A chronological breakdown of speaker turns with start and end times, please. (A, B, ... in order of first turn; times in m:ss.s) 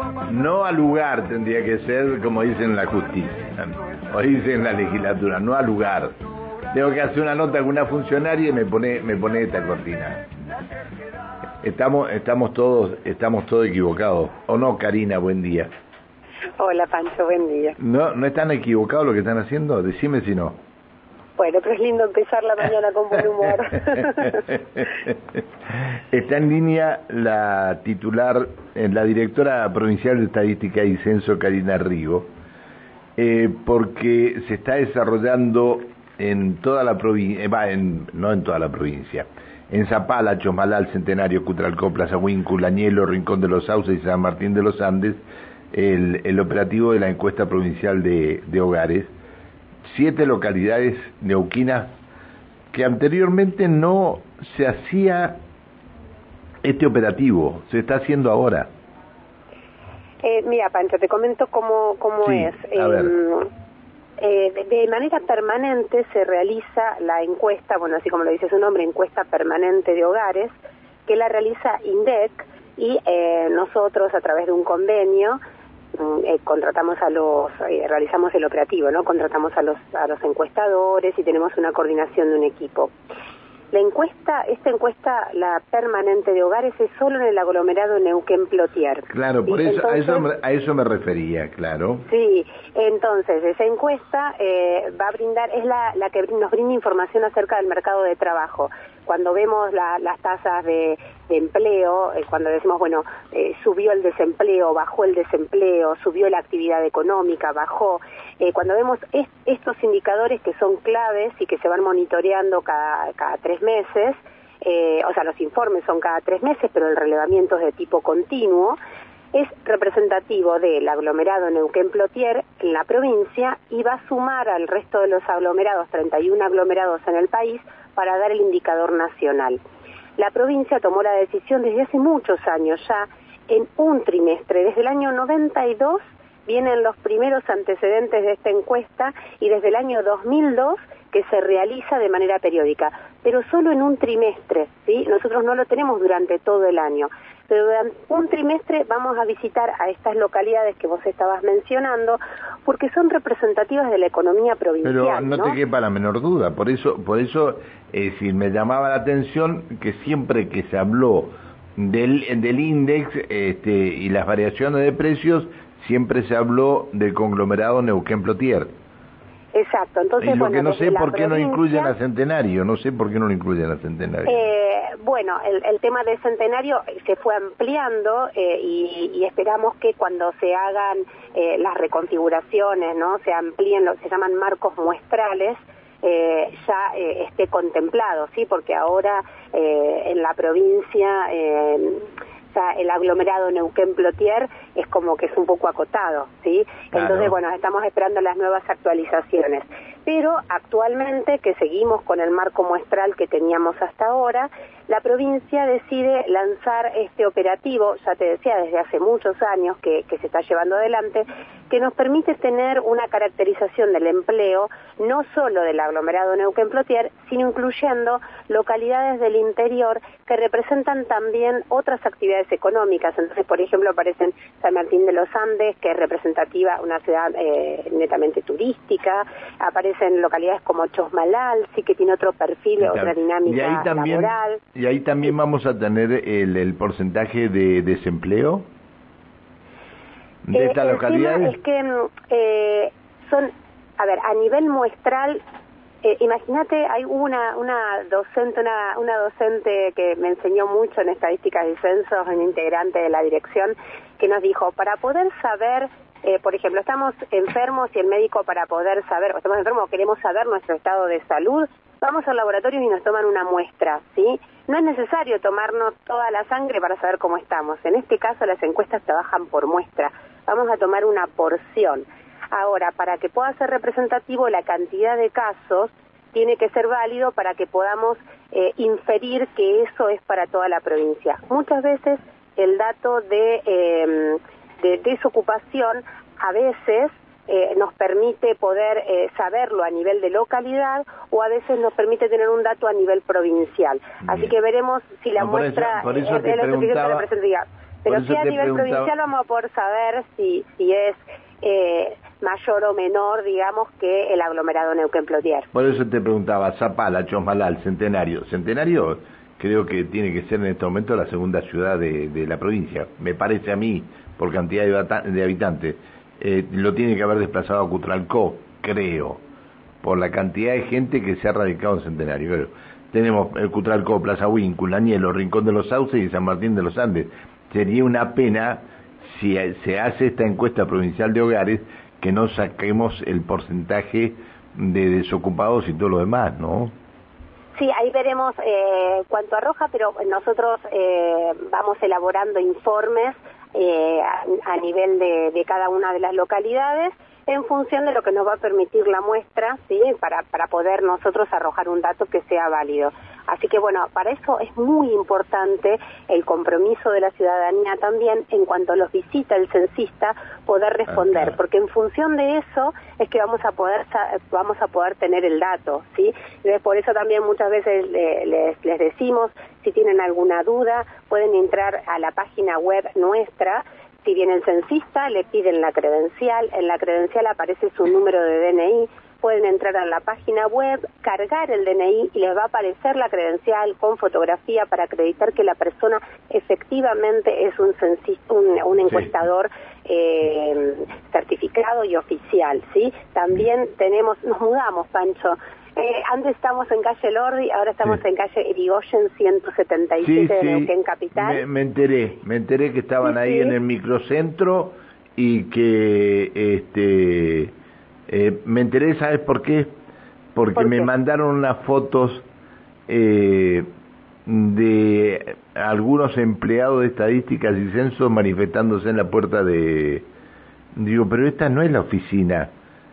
0:00.3-0:06.1 A
0:06.7-0:10.3 A
0:11.6-0:15.7 A
0:16.6-0:17.8 B
0:17.8-0:20.6 A
0:21.4-0:24.5 B
0:26.1-0:32.3 A
0:33.2-0:45.2 A
0:45.7-0:49.1 A
0:49.9-0:51.9 A
0:52.7-0:55.4 A
0:56.6-0:58.7 A
1:00.2-1:03.5 B
1:02.2-1:03.2 A
1:04.2-1:10.6 B
1:11.1-1:15.4 B
1:16.0-1:22.9 B
1:23.7-1:30.3 B
1:29.1-1:32.1 A
1:32.1-1:58.8 B
1:59.3-2:09.6 B
2:10.2-2:35.6 B
2:34.8-2:48.7 A
2:49.5-2:52.0 B
2:50.2-2:54.5 A
2:54.3-3:54.6 B
3:16.9-3:17.3 A
3:52.8-3:58.7 A
4:00.5-4:01.6 A
4:00.5-4:05.4 B
4:06.0-5:05.7 B
4:55.4-4:57.3 A
4:58.1-4:59.1 A
5:05.7-5:19.4 A
5:20.0-5:36.9 A
5:37.8-6:41.6 B
6:40.2-6:47.7 A
6:43.2-6:43.8 B
6:48.3-6:49.9 A
6:50.6-6:52.4 A
6:50.8-6:51.1 B
6:53.1-6:53.9 A
6:54.5-7:00.3 A
7:01.0-7:02.7 A